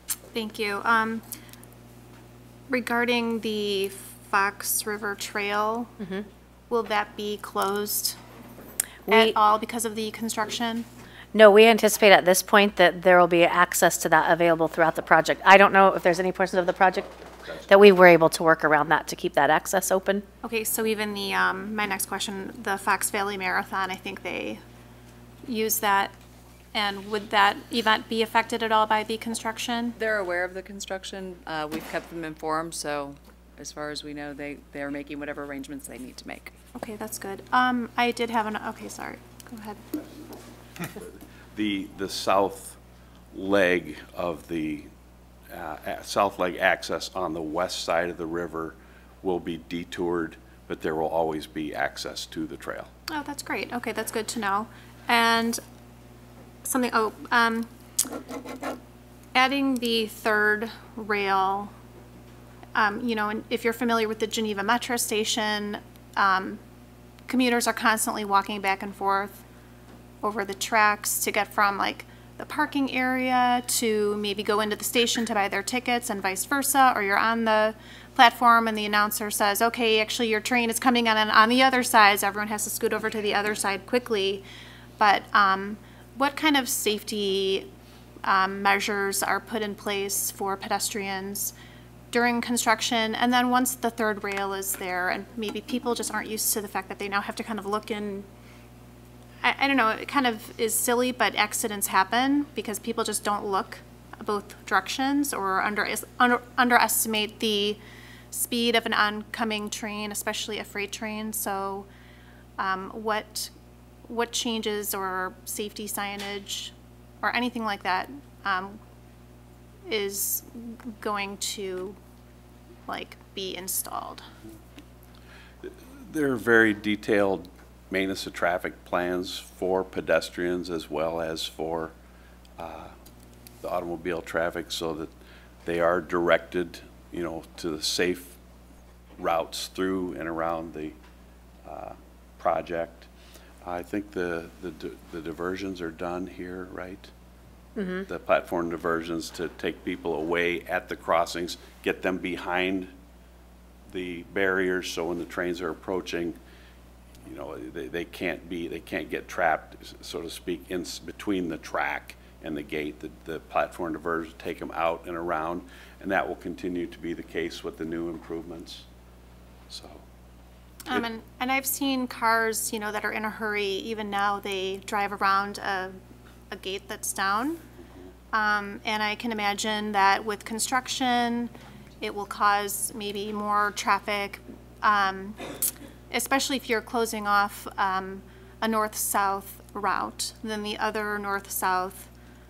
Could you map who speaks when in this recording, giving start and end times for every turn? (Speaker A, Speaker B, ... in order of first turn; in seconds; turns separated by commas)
Speaker A: 0.3-1.2, Speaker A: 2.7-5.9, Speaker B: 6.0-6.2, Speaker A: 6.7-8.2, Speaker B: 9.1-9.3, Speaker A: 9.1-10.8, Speaker B: 11.3-17.1, Speaker B: 17.7-20.2, Speaker A: 20.4-24.6, Speaker A: 25.4-26.1, Speaker A: 26.7-30.0, Speaker C: 30.0-36.5, Speaker A: 36.7-39.8, Speaker D: 41.5-42.8, Speaker D: 43.3-44.9, Speaker D: 45.5-52.9, Speaker A: 53.1-55.6, Speaker A: 56.6-57.7, Speaker A: 59.3-61.7, Speaker A: 62.7-66.6, Speaker A: 67.3-69.4, Speaker A: 70.2-84.4, Speaker A: 85.0-87.7, Speaker A: 88.2-91.5, Speaker A: 92.1-98.3, Speaker A: 99.4-107.8, Speaker A: 108.3-111.9, Speaker A: 112.6-113.5, Speaker A: 114.0-118.8, Speaker A: 119.9-122.0, Speaker A: 122.9-124.2, Speaker D: 125.6-131.9, Speaker D: 132.6-132.9, Speaker D: 133.6-135.1, Speaker D: 135.6-138.4, Speaker D: 139.2-141.0, Speaker D: 141.6-143.1, Speaker D: 143.6-147.1, Speaker B: 147.8-148.1, Speaker D: 148.1-152.9, Speaker D: 153.8-156.4, Speaker D: 157.2-168.8, Speaker D: 169.7-170.1, Speaker A: 170.8-176.0, Speaker A: 176.5-177.6, Speaker D: 177.8-178.1, Speaker A: 178.3-185.4, Speaker A: 186.1-192.1